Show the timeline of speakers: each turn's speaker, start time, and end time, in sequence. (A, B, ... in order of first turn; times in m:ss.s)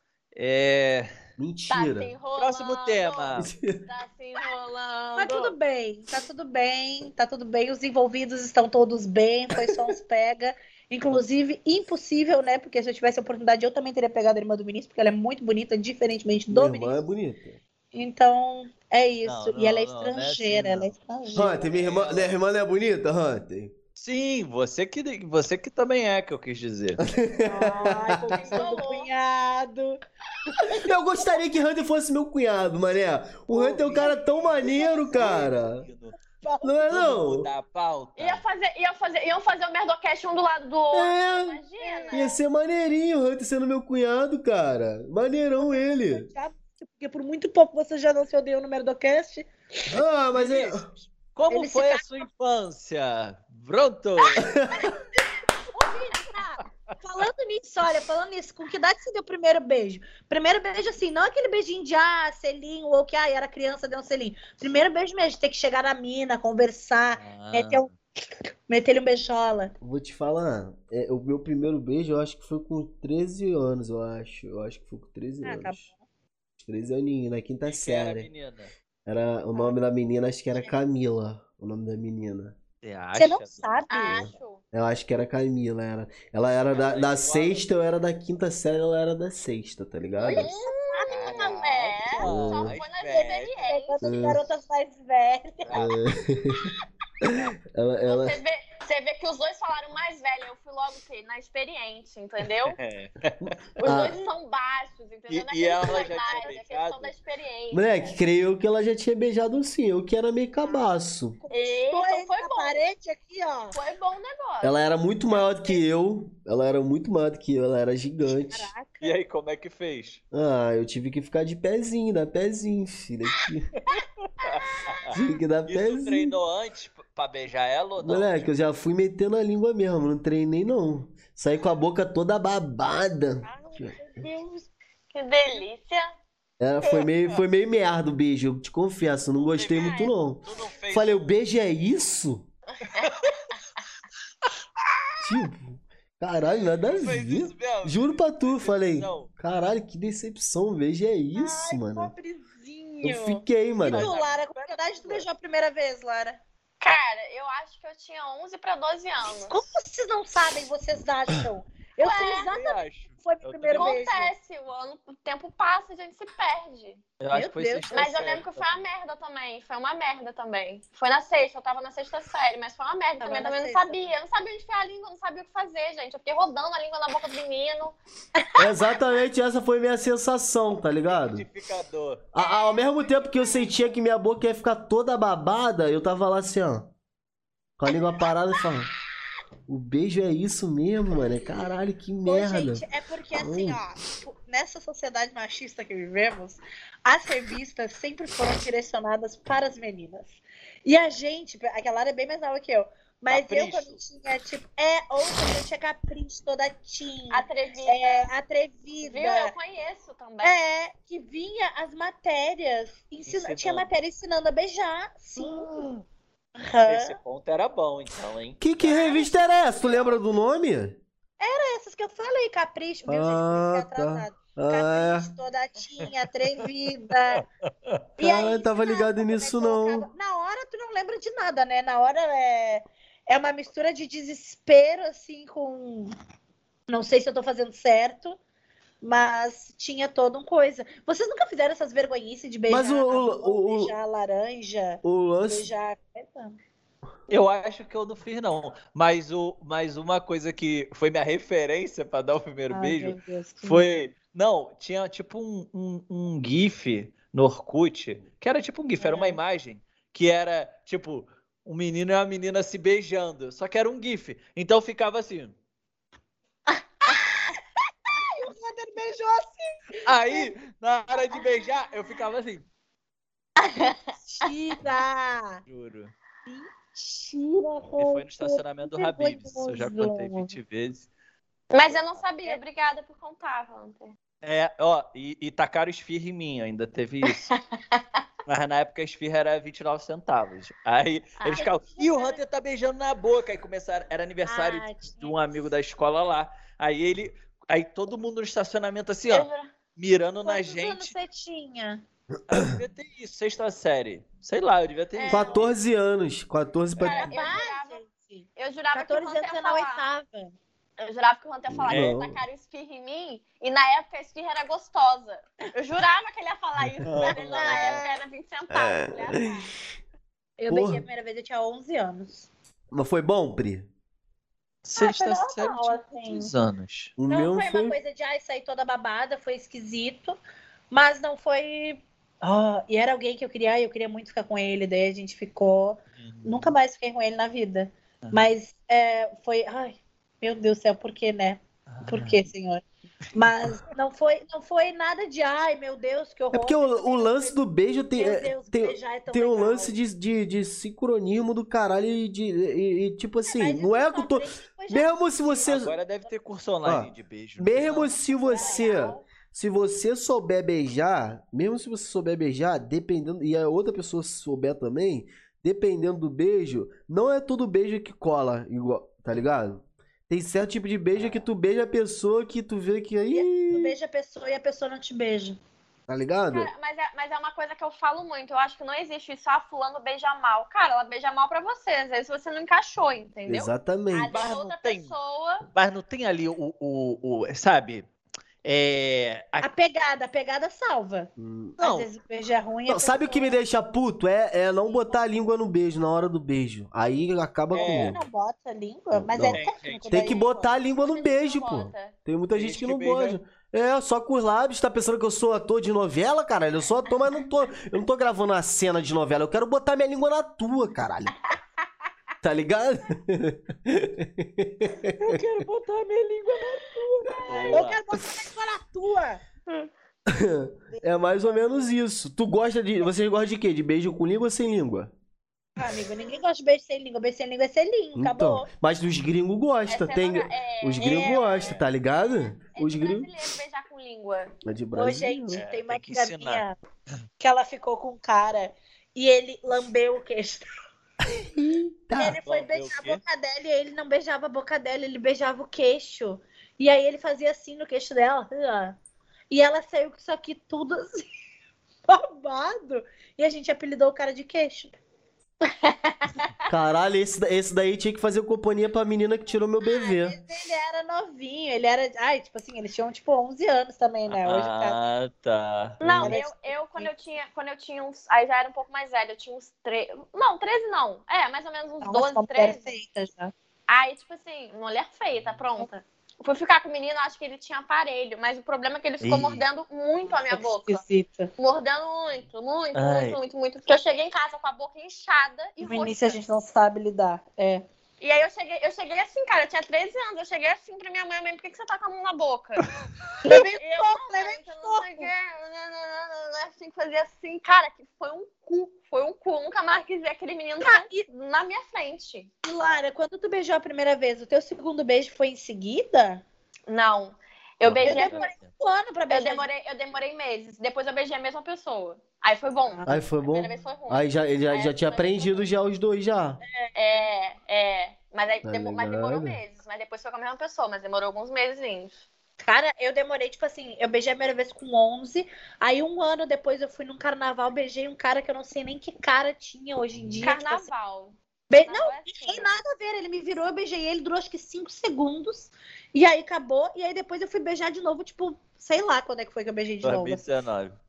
0:00.4-0:01.1 A
0:01.4-0:02.1 B
0:01.7-0:05.5 C
0:02.4-0:03.5 A
0:03.4-0:03.8 B
0:05.2-0:17.0 D
0:16.5-0:17.6 B
0:17.9-0:21.7 D
0:19.2-0:22.3 A
0:21.3-0:23.7 B
0:24.0-0:27.0 A
0:27.0-0:28.6 B
0:27.4-0:31.4 D
0:28.4-0:29.1 C
0:30.6-0:35.8 B
0:33.5-0:36.2 A
0:33.6-0:35.5 D
0:36.4-0:36.9 D
0:36.6-0:37.5 B
0:36.9-0:38.4 A
0:38.2-0:42.3 C
0:40.9-0:41.6 B
0:41.8-0:42.3 D
0:42.1-0:46.3 B
0:45.6-0:49.8 D
0:49.9-0:50.9 B
0:50.3-0:54.5 A
0:51.5-0:52.2 D
0:54.4-0:54.9 B
0:54.4-0:55.0 D
0:55.7-1:07.9 D
1:07.2-1:07.9 A
1:08.7-1:09.7 D
1:09.8-1:15.8 B
1:15.4-1:16.0 D
1:16.6-1:18.3 B
1:17.6-1:18.7 A
1:19.0-1:22.6 B
1:22.8-1:23.8 A
1:23.1-1:24.2 D
1:23.9-1:24.6 C
1:24.1-1:30.5 B
1:26.7-1:27.6 A
1:30.2-1:34.0 C
1:30.2-1:31.5 D
1:31.1-1:33.6 A
1:32.2-1:32.8 B
1:33.7-1:35.8 D
1:34.0-1:34.4 B
1:35.6-1:35.9 A
1:35.7-1:38.4 B
1:38.1-1:42.8 C
1:42.7-1:43.6 A
1:43.8-1:48.2 C
1:43.8-1:44.2 B
1:45.3-1:47.1 A
1:45.8-1:46.5 D
1:47.7-1:51.4 B
1:51.4-1:53.7 D
1:51.5-1:52.8 C
1:53.7-1:55.8 C
1:54.6-1:58.7 B
1:58.2-1:59.1 D
1:59.0-2:00.2 A
2:00.3-2:03.7 B
2:03.9-2:05.0 A
2:05.1-2:06.3 B
2:05.7-2:08.5 A
2:08.0-2:14.0 B
2:13.4-2:14.7 D
2:15.1-2:16.1 C
2:16.6-2:22.5 B
2:19.5-2:21.3 A
2:22.8-2:23.1 C
2:23.0-2:23.4 A
2:25.2-2:32.1 B
2:26.4-2:29.3 A
2:31.3-2:36.4 D
2:33.0-2:34.1 B
2:33.8-2:35.3 A
2:36.8-2:39.6 C
2:39.4-2:44.3 D
2:42.0-2:42.5 C
2:42.3-2:44.0 A
2:43.7-2:47.0 C
2:47.2-2:48.8 A
2:47.3-2:48.0 D
2:47.9-2:57.9 C
2:53.2-2:54.1 D
2:58.4-2:58.9 D
2:58.6-3:01.4 B
3:01.0-3:02.2 A
3:02.3-3:06.9 B
3:07.8-3:08.9 B
3:09.7-3:13.8 B
3:12.2-3:29.5 D
3:23.3-3:24.0 A
3:27.3-3:28.3 C
3:29.0-3:30.6 C
3:30.4-3:35.7 D
3:33.2-3:33.9 A
3:35.4-3:36.0 A
3:36.6-3:37.2 D
3:36.8-3:40.2 A
3:38.6-3:41.0 B
3:38.9-3:39.5 D
3:41.4-3:47.4 D
3:43.0-3:45.3 B
3:47.3-3:48.0 A
3:48.2-3:56.2 D
3:48.2-3:50.1 B
3:56.9-3:58.4 D
3:59.0-4:06.6 D
4:02.7-4:03.9 B
4:05.0-4:05.7 B
4:07.3-4:25.6 A
4:12.7-4:13.8 D
4:19.0-4:19.4 D
4:28.1-4:30.5 D
4:30.0-4:32.7 A
4:33.6-4:34.1 C
4:34.2-4:35.6 D
4:35.7-4:36.1 A
4:36.5-4:40.6 D
4:38.0-4:41.1 A
4:41.7-4:44.1 C
4:44.4-4:47.5 A
4:47.5-4:48.0 C
4:48.4-5:01.1 A
4:51.4-4:51.7 C
4:51.5-4:52.4 D
4:54.4-4:55.7 D
4:59.3-4:59.7 C
5:00.4-5:02.0 D
5:02.5-5:05.7 A
5:05.2-5:05.6 C
5:05.2-5:05.5 D
5:05.3-5:07.3 B
5:07.0-5:08.0 C
5:07.2-5:10.5 D
5:08.6-5:10.0 C
5:11.0-5:19.7 C
5:11.7-5:12.4 B
5:11.9-5:12.1 A
5:17.0-5:18.0 A
5:17.3-5:18.1 D
5:18.7-5:19.1 B
5:20.6-5:22.5 D
5:20.7-5:21.0 B
5:22.9-5:23.9 B
5:24.8-5:27.1 A
5:25.0-5:26.5 D
5:27.2-5:28.0 B
5:27.3-5:30.4 D
5:30.9-5:42.8 D
5:36.2-5:36.7 A
5:38.2-5:38.5 A
5:41.9-5:42.4 A
5:43.3-5:47.6 D
5:46.5-5:55.9 B
5:48.2-5:50.0 D
5:53.5-5:56.1 D
5:55.6-5:58.2 A
5:56.8-6:13.9 B
5:58.2-5:59.2 D
6:11.2-6:11.4 A
6:13.3-6:15.6 D
6:16.1-6:16.7 B
6:16.5-6:25.6 C
6:23.5-6:24.4 B
6:24.3-6:25.1 A
6:25.7-6:28.1 A
6:28.6-6:29.7 A
6:29.6-6:33.6 D
6:31.4-6:31.8 B
6:31.8-6:32.1 A
6:32.9-6:38.2 B
6:37.7-6:38.2 A
6:37.8-6:40.8 D
6:39.1-6:51.4 B
6:39.5-6:40.4 A
6:40.9-6:42.1 C
6:42.5-6:43.4 A
6:52.4-6:55.4 B
6:55.2-6:59.4 D
6:57.5-6:58.0 A
7:00.3-7:05.1 B
7:00.9-7:01.2 D
7:05.8-7:08.6 D
7:08.2-7:13.3 B
7:09.9-7:14.5 C
7:11.0-7:11.8 A
7:14.6-7:15.6 B
7:14.9-7:16.8 D
7:15.5-7:16.6 A
7:17.4-7:20.7 D
7:21.5-7:22.4 B
7:22.1-7:29.0 D
7:22.4-7:23.2 A
7:29.5-7:31.3 D
7:32.1-7:34.9 D
7:35.6-7:36.5 C
7:36.7-7:40.4 B
7:39.8-7:45.0 D
7:44.3-7:46.4 A
7:46.0-7:52.8 C
7:46.2-7:47.1 D
7:52.0-7:53.5 D
7:53.9-7:55.9 C
7:56.4-8:01.0 C
7:59.2-7:59.6 A
8:00.3-8:01.5 D
8:01.6-8:06.4 C
8:02.9-8:03.4 A
8:05.8-8:07.8 D
8:08.2-8:12.9 C
8:13.4-8:15.3 D
8:13.5-8:22.5 C
8:20.8-8:21.2 D
8:22.6-8:26.4 D
8:26.9-8:28.5 C
8:27.8-8:28.7 A
8:28.0-8:29.7 D
8:29.3-8:35.7 C
8:32.9-8:33.2 D
8:33.0-8:36.6 B
8:36.7-8:37.2 D
8:36.9-8:42.2 C
8:38.6-8:39.6 B
8:42.6-8:50.9 D
8:50.4-8:52.7 C
8:51.7-9:00.5 D
9:00.0-9:01.0 A